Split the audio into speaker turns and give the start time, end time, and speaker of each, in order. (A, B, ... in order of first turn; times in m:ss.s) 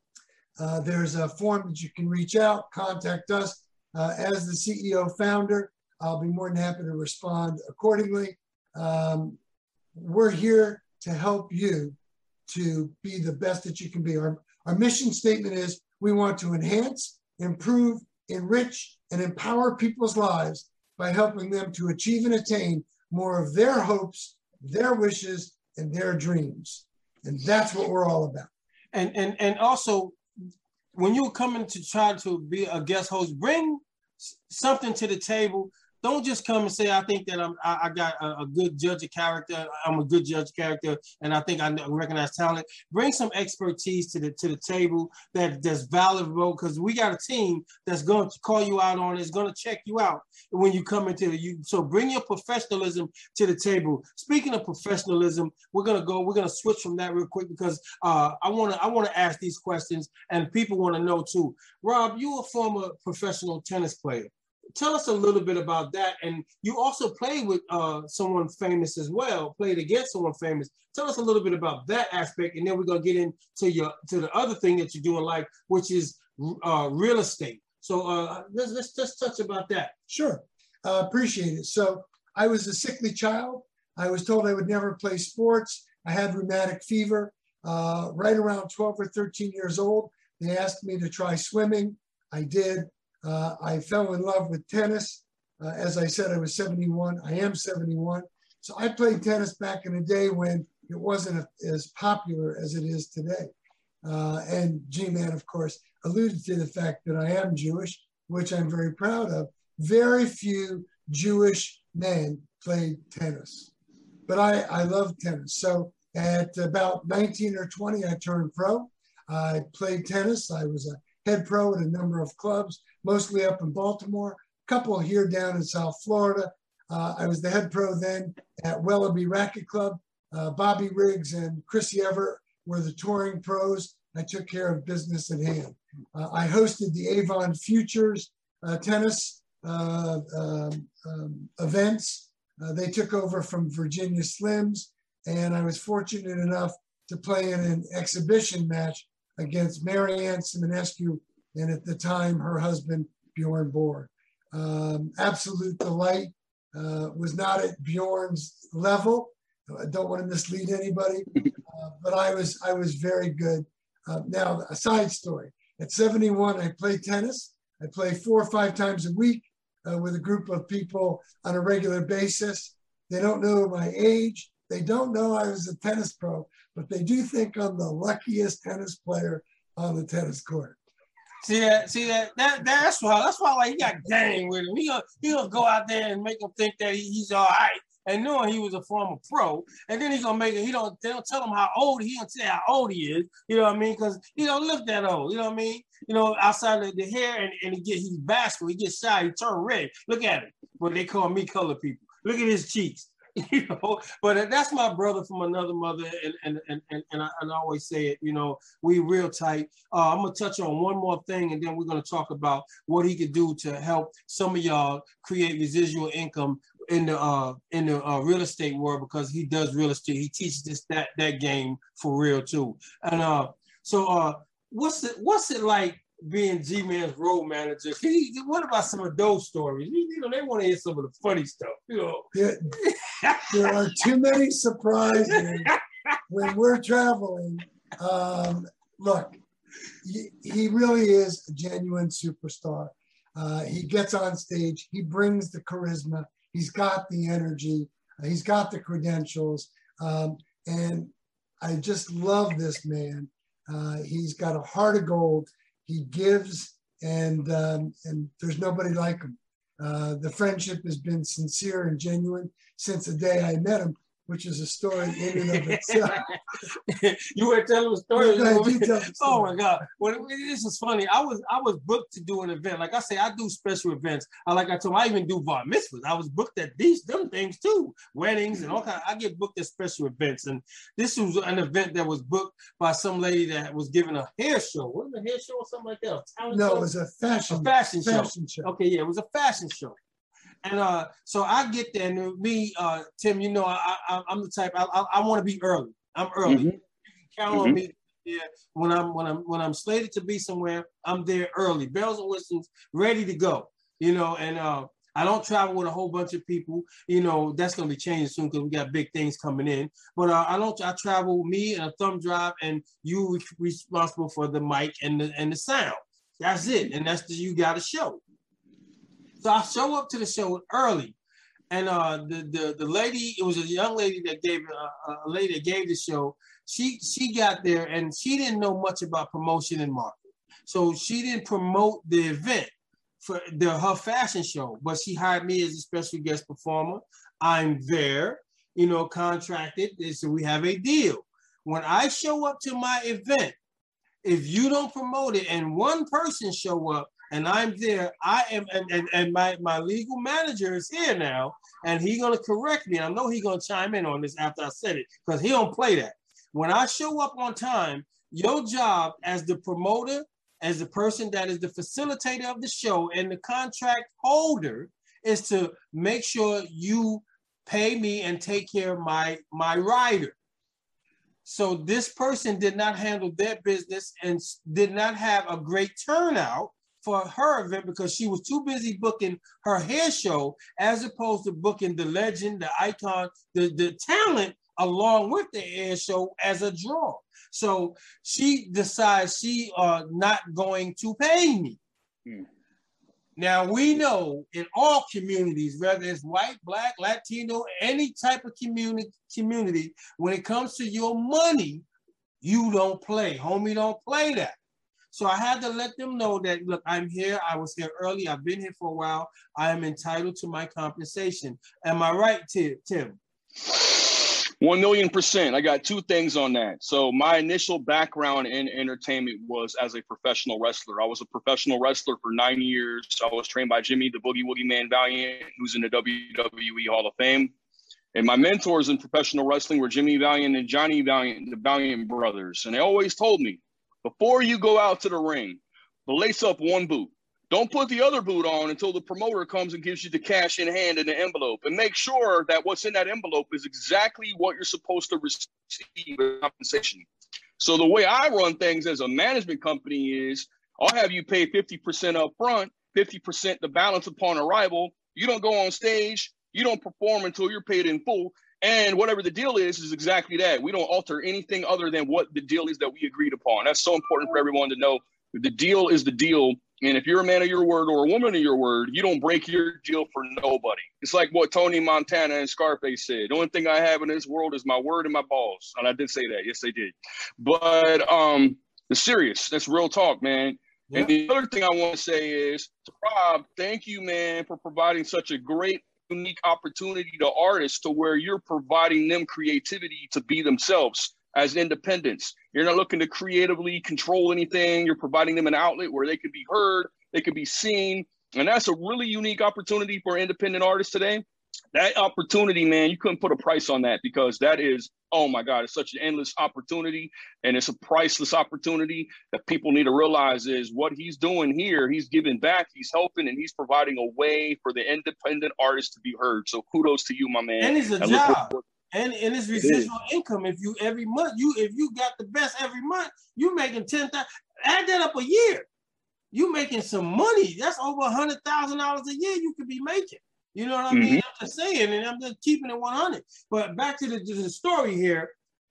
0:00.6-0:09.4 A
0:09.9-0:12.0 A
0:12.5-0:28.5 A
0:28.9-0:30.2 B
0:30.9-1:19.9 B
1:20.1-1:43.5 A
1:44.0-1:53.7 A
1:54.3-3:00.8 A
3:01.4-3:53.8 B
3:52.3-3:52.7 A
3:53.5-3:55.8 A
3:55.3-3:55.8 B
3:56.3-3:59.4 A
4:00.0-4:26.2 A
4:25.4-4:26.3 B
4:26.9-4:46.9 B
4:28.2-4:29.6 A
4:46.5-4:48.7 A
4:47.5-4:50.0 B
4:50.6-4:56.7 B
4:56.5-4:56.7 C
4:57.3-5:18.2 B
4:57.5-4:57.8 C
5:19.4-5:21.2 B
5:21.7-5:43.6 B
5:44.2-6:10.4 B
6:11.4-6:31.8 B
6:33.4-6:41.8 B
6:42.4-6:44.6 B
6:45.1-6:53.2 B
6:53.6-7:07.5 C
7:08.2-7:27.1 C
7:27.6-8:38.6 C
8:37.6-8:45.7 B
8:39.6-8:39.9 C
8:46.3-8:55.3 B
8:50.9-8:51.2 C